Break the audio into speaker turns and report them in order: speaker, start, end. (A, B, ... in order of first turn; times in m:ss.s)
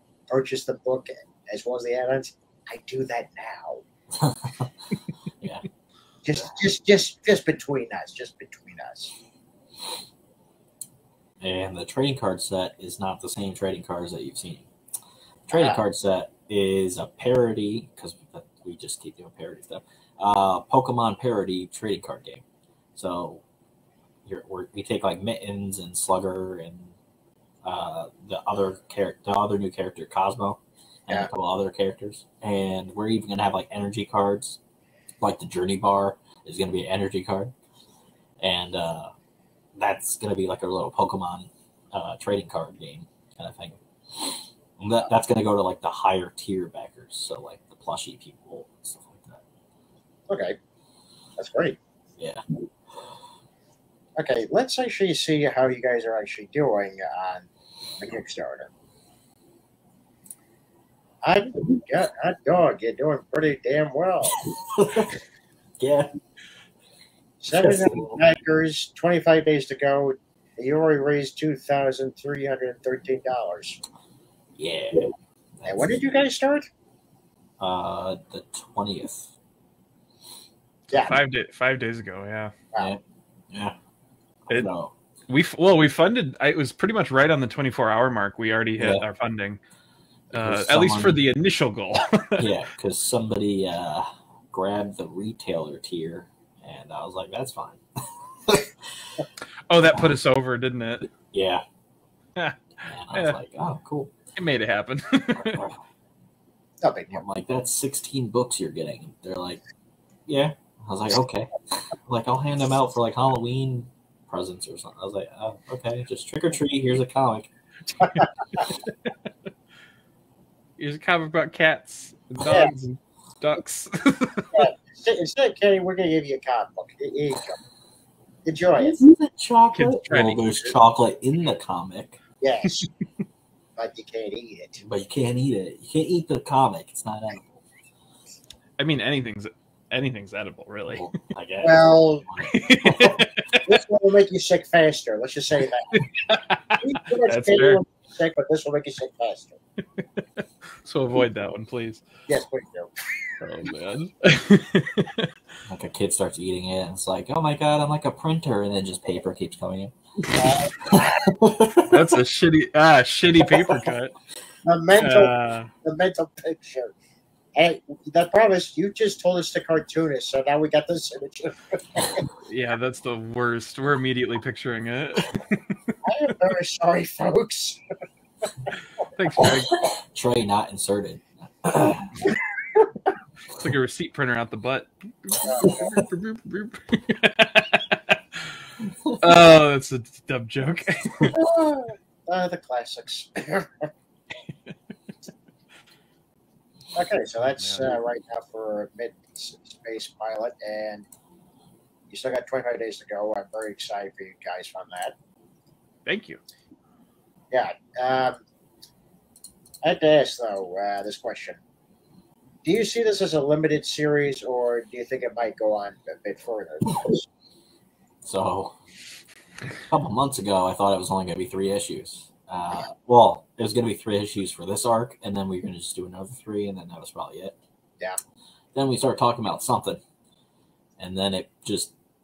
0:00.3-0:03.8 A
0:04.1-0:04.7 B
0:06.2-0:09.1 A
0:11.4-0:14.7 B
0:15.5-0:22.4 B
0:15.5-0:15.8 A
0:22.9-0:23.4 B
0:24.2-0:26.9 B
0:27.6-0:34.6 B
0:35.2-0:37.5 B
0:38.4-0:39.1 B
0:39.8-0:49.4 B
0:50.3-0:50.6 A
0:51.4-0:51.8 A
0:54.2-0:57.5 A
0:58.0-0:58.7 A
1:01.2-1:04.4 A
1:04.5-1:05.2 B
1:05.8-1:06.1 B
1:07.4-1:13.8 A
1:07.5-1:08.2 B
1:14.6-1:16.2 B
1:15.6-1:16.7 A
1:17.6-1:19.3 B
1:20.9-1:22.5 C
1:23.5-1:23.8 B
1:24.5-1:24.9 B
1:25.3-1:29.6 C
1:28.8-1:29.0 B
1:30.3-1:31.2 B
1:30.3-1:32.5 C
1:32.4-1:39.1 B
1:39.7-1:41.1 C
1:41.1-1:41.6 B
1:42.8-1:44.1 B
1:44.4-1:45.6 C
1:45.3-1:45.8 B
1:46.8-1:47.2 A
1:47.1-1:49.6 B
1:50.3-1:57.5 B
2:00.8-2:04.6 C
2:02.4-2:02.7 A
2:04.5-2:07.6 A
2:08.4-2:09.0 A
2:08.8-2:12.2 B
2:09.7-2:10.7 C
2:12.4-2:12.9 A
2:13.8-2:14.8 A
2:14.8-2:17.6 B
2:18.8-2:21.1 C
2:20.9-2:23.2 B
2:21.6-2:22.3 A
2:22.4-2:23.7 C
2:23.6-2:26.0 A
2:25.9-2:27.8 C
2:26.8-2:29.6 A
2:30.8-2:32.0 C
2:32.3-2:33.0 A
2:33.4-2:35.3 C
2:35.7-2:39.9 B
2:40.3-2:41.2 A
2:40.8-2:42.1 B
2:41.9-2:44.1 C
2:44.6-2:46.9 A
2:45.0-2:45.7 C
2:47.5-2:52.2 A
2:52.4-2:55.8 C
2:56.0-2:57.8 A
2:59.1-2:59.7 C
2:59.4-3:02.2 B
3:03.5-3:08.6 C
3:05.4-3:05.9 A
3:08.8-3:09.2 B
3:09.2-3:11.3 C
3:11.3-3:13.9 A
3:16.9-3:21.0 A
3:17.6-3:17.9 C
3:22.1-3:25.1 A
3:26.0-3:26.4 C
3:27.5-3:28.4 A
3:29.8-3:31.6 A
3:32.6-3:37.2 A
3:38.2-3:38.8 B
3:39.9-3:47.6 B
3:48.7-3:50.0 B
3:51.0-3:51.9 B